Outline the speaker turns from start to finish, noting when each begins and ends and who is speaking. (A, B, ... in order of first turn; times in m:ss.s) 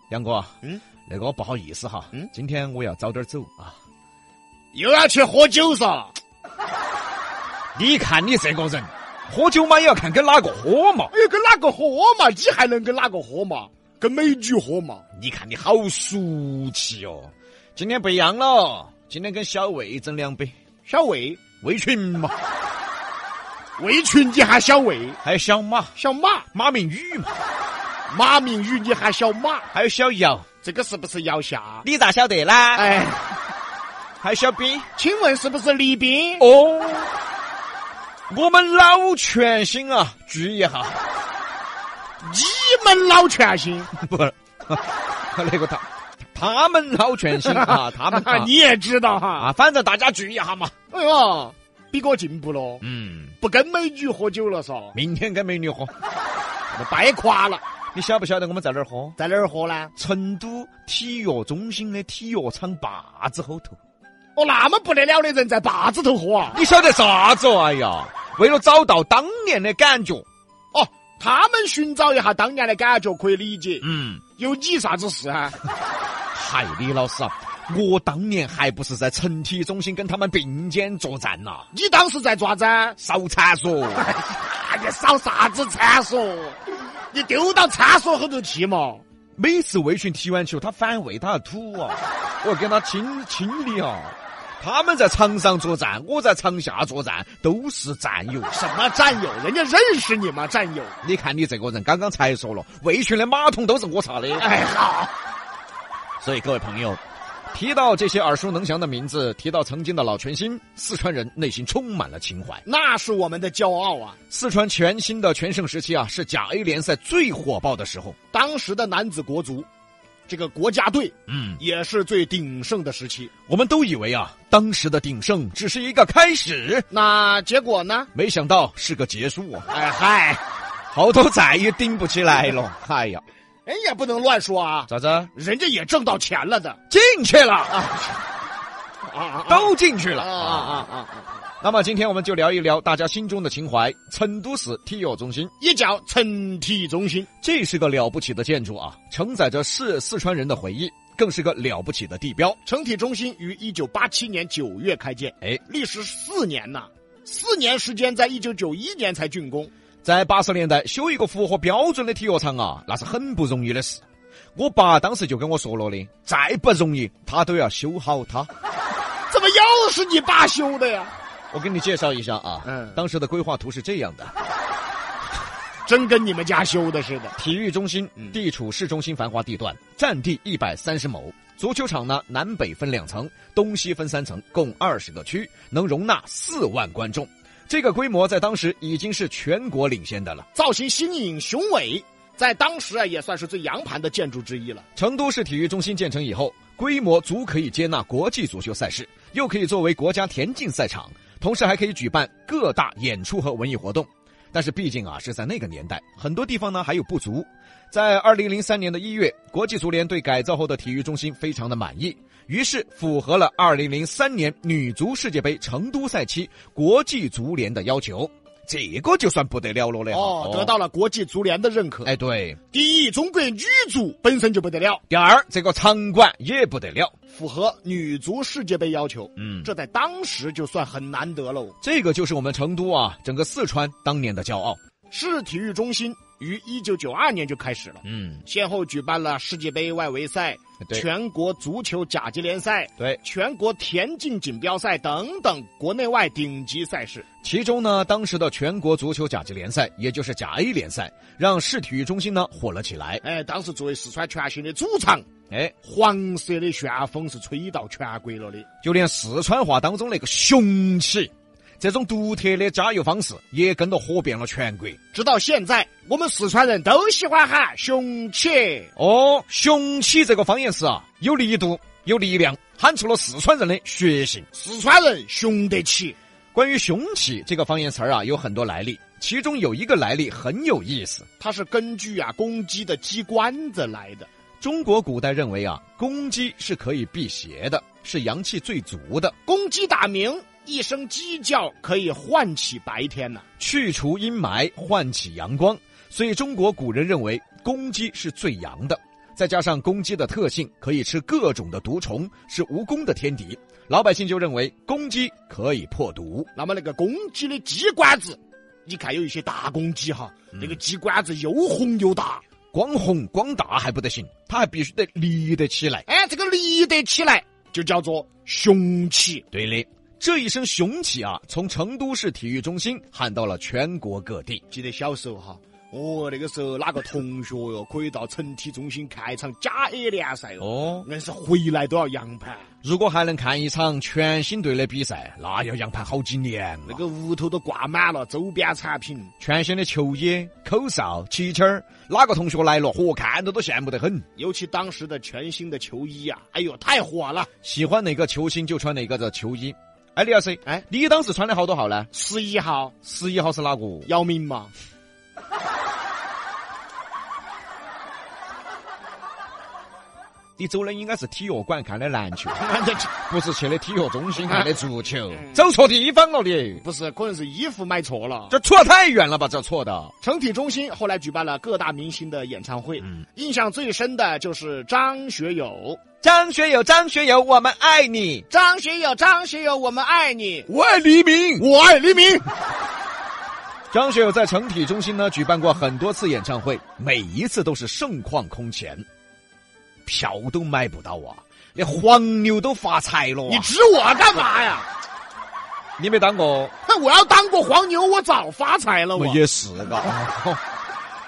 0:00.1-0:03.8 A
0:04.7-0:06.2 B
0:07.8-0:11.1 A
0:11.1-0:15.0 B
0:15.2-0:20.5 A
0:20.9-0:21.4 B
0:21.6-0:22.4 A
0:23.8-0:25.2 B
0:25.2-0:25.9 A
0:26.0-0:26.5 B
0:26.5-0:27.4 A
0:28.1-0:29.7 B
0:29.7-0:30.5 A
0:30.6-0:31.9 B
0:31.8-0:33.0 A
0:32.7-0:33.4 B
0:34.2-0:34.9 A
0:35.0-0:36.4 B
0:36.4-0:37.1 A
0:38.3-0:41.0 A
0:42.2-0:43.9 B
0:43.9-0:48.5 A
0:47.4-0:49.5 B
0:49.4-0:50.7 A
0:50.9-0:52.8 B
0:52.8-0:53.4 A
0:53.4-0:55.0 B
0:54.9-0:55.9 A
0:56.7-0:57.6 B
0:57.9-0:59.2 A
0:59.2-0:59.9 B
1:00.0-1:03.8 A
1:04.4-1:06.6 B
1:06.5-1:10.3 A
1:10.7-1:13.9 B
1:13.8-1:14.2 A
1:14.4-1:15.6 B
1:16.3-1:21.7 A
1:21.7-1:23.0 B
1:23.0-1:24.1 A
1:24.0-1:29.0 B
1:29.4-1:38.6 A
1:38.5-1:41.0 B
1:41.0-1:44.5 A
1:44.4-1:45.1 B
1:46.2-1:47.0 A
1:47.5-1:52.6 A
1:52.6-1:54.2 B
1:54.3-1:58.2 A
1:58.3-1:59.7 B
2:00.3-2:03.3 B
2:01.3-2:01.6 A
2:03.5-2:06.9 A
2:06.9-2:08.1 B
2:08.1-2:09.7 A
2:09.7-2:10.4 B
2:10.9-2:13.2 A
2:13.7-2:16.8 B
2:14.9-2:15.3 A
2:16.9-2:17.9 A
2:17.7-2:18.1 B
2:19.0-2:21.3 B
2:19.5-2:20.9 A
2:21.6-2:25.5 A
2:25.6-2:27.3 B
2:27.4-2:32.6 A
2:32.6-2:39.7 B
2:40.0-2:44.0 A
2:44.6-2:48.5 A
2:49.3-2:51.1 B
2:51.5-2:54.3 A
2:52.6-2:53.0 B
2:55.9-2:57.4 B
2:57.4-3:10.5 A
3:10.6-3:14.8 B
3:15.0-3:40.7 A
3:40.1-3:42.1 B
3:42.0-3:42.6 A
3:42.7-3:45.0 B
3:45.1-3:47.1 A
3:47.3-3:51.8 B
3:49.4-3:49.7 A
3:51.8-3:54.8 A
3:55.1-4:07.2 B
3:58.0-3:58.4 A
4:07.4-4:13.2 A
4:13.2-4:15.3 B
4:15.5-4:15.8 A
4:15.8-4:18.7 B
4:18.8-4:25.0 A
4:25.1-4:28.9 B
4:29.0-4:34.5 A
4:34.5-4:36.2 B
4:36.5-4:41.3 A
4:41.4-4:44.3 B
4:44.6-4:49.4 A
4:49.5-4:53.4 B
4:53.6-5:06.5 A
5:06.6-5:12.4 B
5:10.5-5:10.8 A
5:12.7-5:16.1 A
5:16.1-5:19.4 B
5:19.5-5:24.6 A
5:24.7-5:32.7 B
5:30.6-5:31.1 A
5:32.8-5:37.0 A
5:36.9-5:39.3 B
5:39.4-5:44.3 A
5:44.4-5:47.5 B
5:47.6-5:52.1 A
5:52.1-5:53.0 B
5:53.0-5:54.1 A
5:54.1-5:54.7 B
6:00.6-6:02.6 A
6:02.6-6:03.1 B
6:03.3-6:06.8 A
6:06.8-6:08.5 B
6:08.5-6:10.1 A
6:10.2-6:16.0 B
6:16.2-6:18.5 A
6:18.5-6:20.7 B
6:20.7-6:21.7 A
6:21.6-6:22.5 B
6:23.9-6:29.0 A
6:30.1-6:33.7 A
6:33.5-6:34.9 B
6:36.0-6:36.7 A
6:36.9-6:39.4 B
6:39.2-6:40.6 A